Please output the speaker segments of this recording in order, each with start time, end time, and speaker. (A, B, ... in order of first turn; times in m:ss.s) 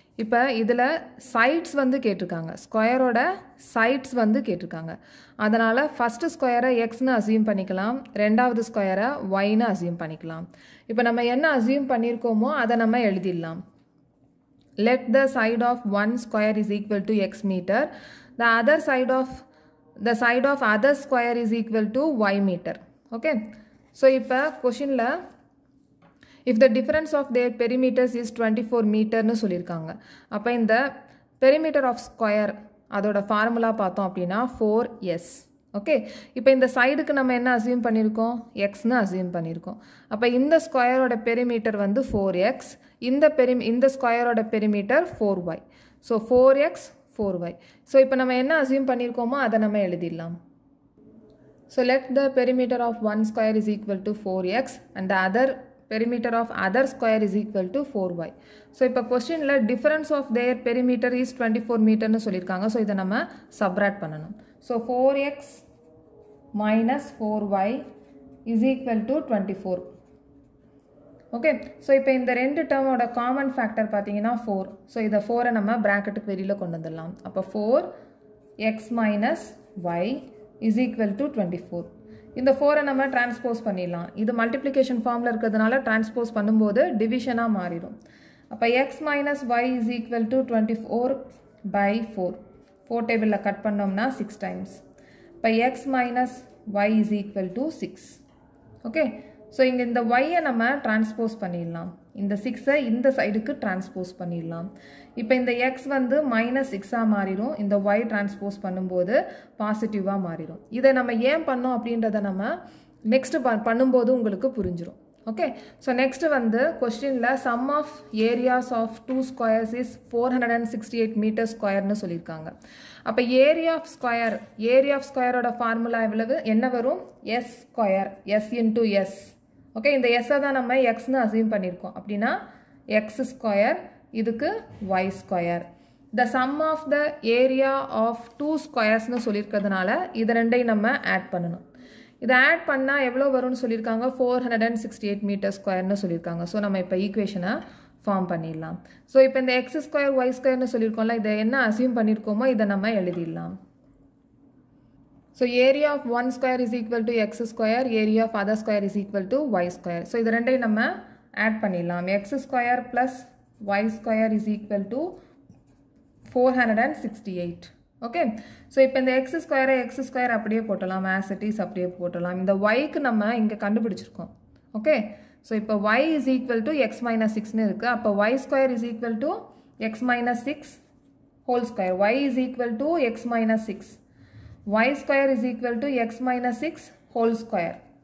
0:00.2-0:13.6 A
0:14.8-0:19.4 A
0:20.0-0:23.4 A
0:24.0-0:25.2 A
0:26.4-0:30.8 A
0:31.4-0:50.4 A
0:51.7-1:05.6 A
1:06.6-1:07.8 A
1:08.4-1:09.9 A
1:11.3-1:17.9 A
1:18.6-1:27.9 A
1:28.5-1:34.8 A
1:35.4-1:38.2 A
1:38.8-1:52.6 A
1:53.1-2:02.5 A
2:03.0-2:12.4 A
2:12.9-2:21.6 A
2:22.2-2:33.6 A
2:35.3-2:45.2 A
2:46.3-3:00.8 A
3:01.4-3:04.0 A
3:04.7-3:07.8 A